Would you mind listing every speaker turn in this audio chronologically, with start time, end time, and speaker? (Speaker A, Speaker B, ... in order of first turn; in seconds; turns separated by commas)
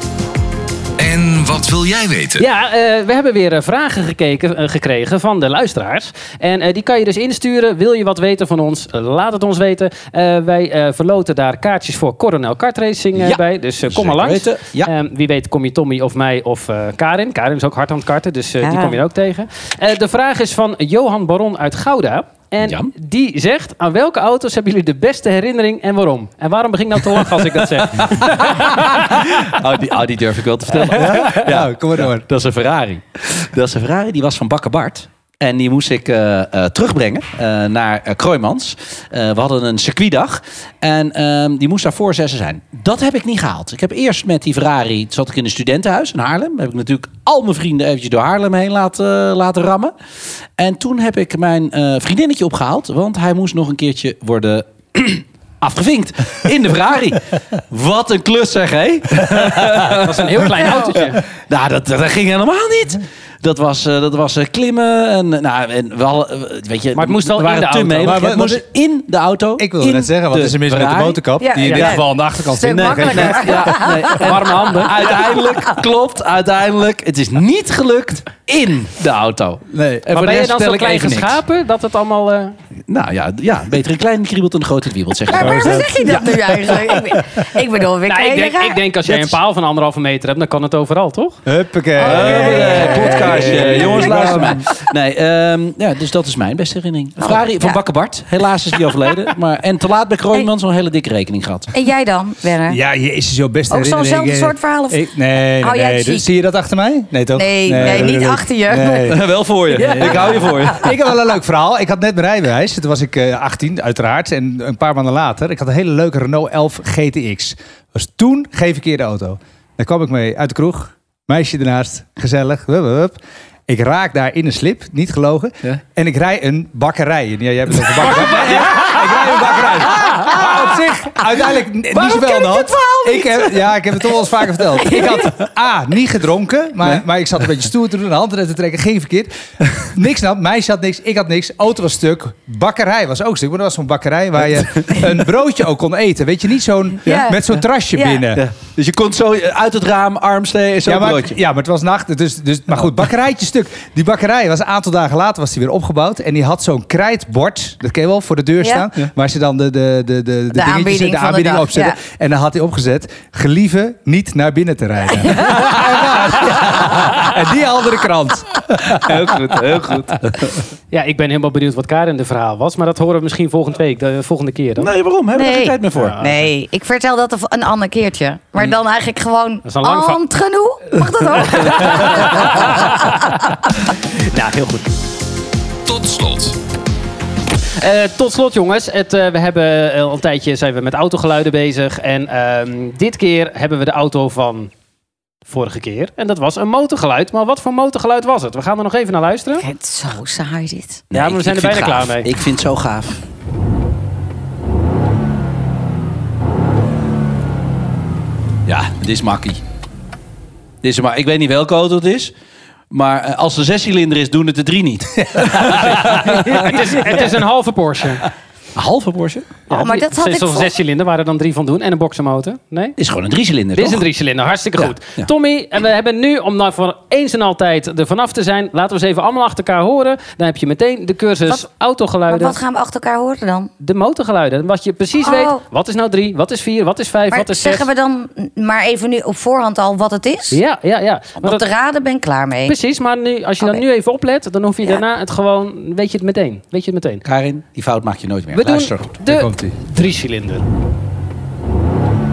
Speaker A: 1.0-2.5, Speaker B: 2.4-29.2, Speaker C: 13.2-14.9, Speaker D: 18.6-19.0, Speaker C: 22.6-22.9, Speaker C: 27.9-49.9, Speaker E: 30.9-32.2, Speaker C: 50.6-71.2, Speaker B: 60.0-61.2, Speaker E: 60.5-61.0, Speaker B: 66.9-68.3, Speaker E: 68.0-68.7, Speaker E: 69.6-73.9, Speaker D: 71.4-74.2, Speaker B: 71.7-72.0, Speaker C: 72.6-81.4, Speaker B: 74.1-75.1, Speaker E: 79.7-80.0, Speaker B: 80.1-82.5, Speaker C: 82.9-85.8, Speaker D: 85.3-88.8, Speaker E: 85.4-87.3, Speaker B: 88.1-91.4, Speaker C: 89.0-89.3, Speaker E: 91.5-94.6, Speaker D: 92.0-93.9, Speaker C: 92.0-101.7, Speaker D: 97.2-97.8, Speaker D: 101.7-102.8, Speaker E: 102.7-148.4, Speaker D: 103.7-105.1, Speaker D: 105.6-106.3, Speaker D: 107.3-109.2, Speaker C: 107.7-108.0, Speaker C: 109.1-110.9, Speaker D: 109.7-110.6, Speaker C: 128.3-128.7, Speaker D: 131.9-133.7, Speaker D: 134.7-135.4, Speaker D: 147.0-147.4, Speaker C: 147.1-147.3, Speaker D: 147.9-148.2, Speaker C: 148.3-151.4, Speaker E: 150.8-169.1, Speaker D: 158.6-158.9, Speaker D: 160.5-162.0, Speaker D: 165.3-165.7, Speaker C: 166.6-167.1, Speaker C: 168.8-170.6, Speaker B: 170.9-174.9, Speaker C: 174.8-176.2, Speaker D: 175.3-182.5, Speaker B: 175.9-176.4, Speaker B: 179.6-180.2, Speaker B: 181.4-183.1, Speaker B: 184.0-184.9, Speaker A: 185.8-186.6, Speaker B: 187.8-194.7, Speaker B: 195.4-199.6, Speaker D: 199.6-201.0, Speaker C: 201.1-203.2, Speaker B: 201.1-202.3, Speaker C: 208.7-209.6, Speaker C: 210.8-212.3, Speaker C: 212.9-217.4, Speaker E: 215.4-215.9, Speaker B: 215.6-218.2, Speaker C: 218.7-219.5, Speaker B: 219.7-222.9, Speaker D: 219.7-220.7, Speaker C: 223.0-224.0, Speaker B: 223.8-232.6, Speaker C: 224.7-225.3, Speaker D: 232.3-233.7, Speaker B: 233.8-237.8, Speaker D: 235.2-235.6, Speaker D: 237.3-240.6, Speaker B: 240.5-241.6, Speaker D: 241.4-242.8, Speaker B: 242.7-247.2, Speaker C: 247.2-249.1, Speaker B: 248.5-250.6, Speaker E: 249.2-249.8